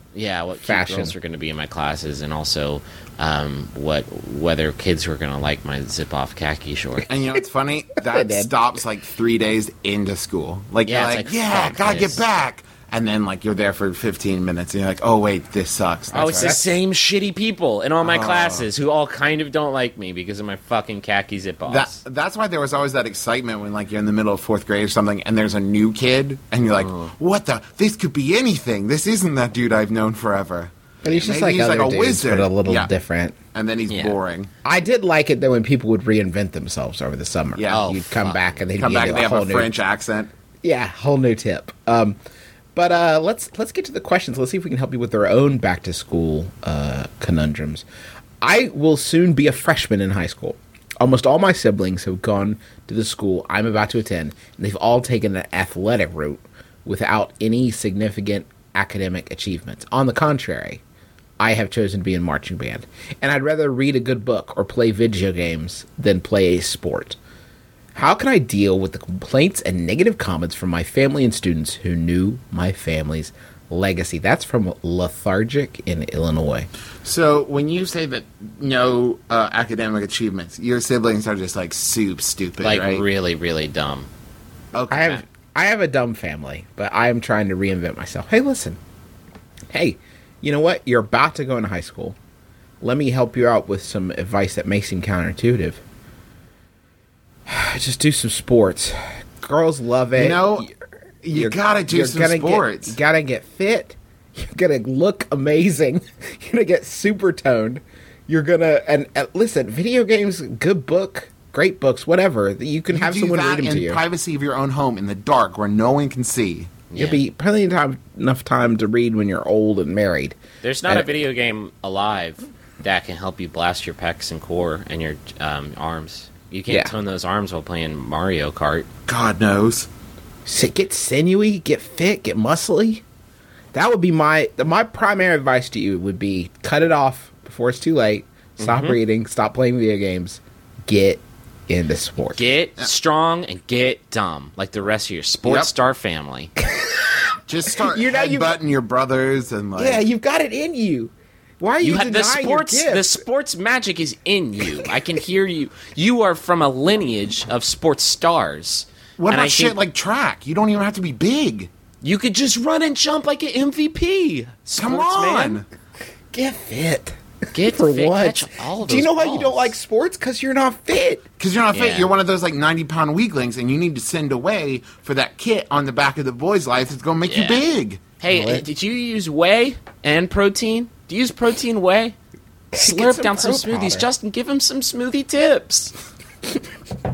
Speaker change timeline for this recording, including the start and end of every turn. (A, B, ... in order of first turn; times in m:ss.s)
0:00.1-0:07.1 A
0:00.6-0:01.1 B
0:07.1-0:16.5 C
0:08.0-0:08.5 B
0:10.8-0:12.2 A
0:16.1-0:16.8 B
0:16.1-0:22.0 A
0:18.0-0:18.7 C
0:21.7-0:32.9 C
0:26.8-0:27.1 A
0:31.0-0:33.4 B
0:33.5-0:34.5 C
0:33.9-0:34.2 A
0:34.6-0:39.7 B
0:37.6-0:37.9 C
0:37.7-0:38.6 A
0:38.8-0:40.3 C
0:40.6-0:42.2 B
0:42.8-0:47.9 B
0:48.4-1:00.8 B
1:01.4-1:07.2 B
1:08.0-1:16.7 B
1:17.0-1:23.0 C
1:22.6-1:24.1 A
1:24.7-1:25.2 C
1:24.9-1:28.8 B
1:29.7-1:32.2 B
1:32.8-1:35.8 B
1:37.5-1:40.7 B
1:40.2-1:40.7 C
1:41.2-1:43.0 C
1:41.4-1:54.0 B
1:52.9-1:56.8 C
1:56.9-1:57.2 A
1:57.0-2:00.4 B
2:00.6-2:08.9 A
2:09.1-2:09.9 C
2:10.5-2:13.0 B
2:13.7-2:22.5 B
2:18.6-2:19.0 A
2:22.4-2:26.5 A
2:26.7-2:28.5 B
2:27.5-2:30.0 C
2:29.8-2:33.2 B
2:31.8-2:39.8 A
2:39.2-2:41.7 C
2:42.0-2:45.6 A
2:44.8-2:45.7 C
2:46.3-2:51.2 B
2:47.5-2:49.7 A
2:51.4-2:58.0 C
2:51.7-2:52.1 A
2:57.3-2:57.6 A
2:58.2-3:02.2 A
2:58.3-2:58.6 B
3:02.7-3:04.1 B
3:02.8-3:05.9 A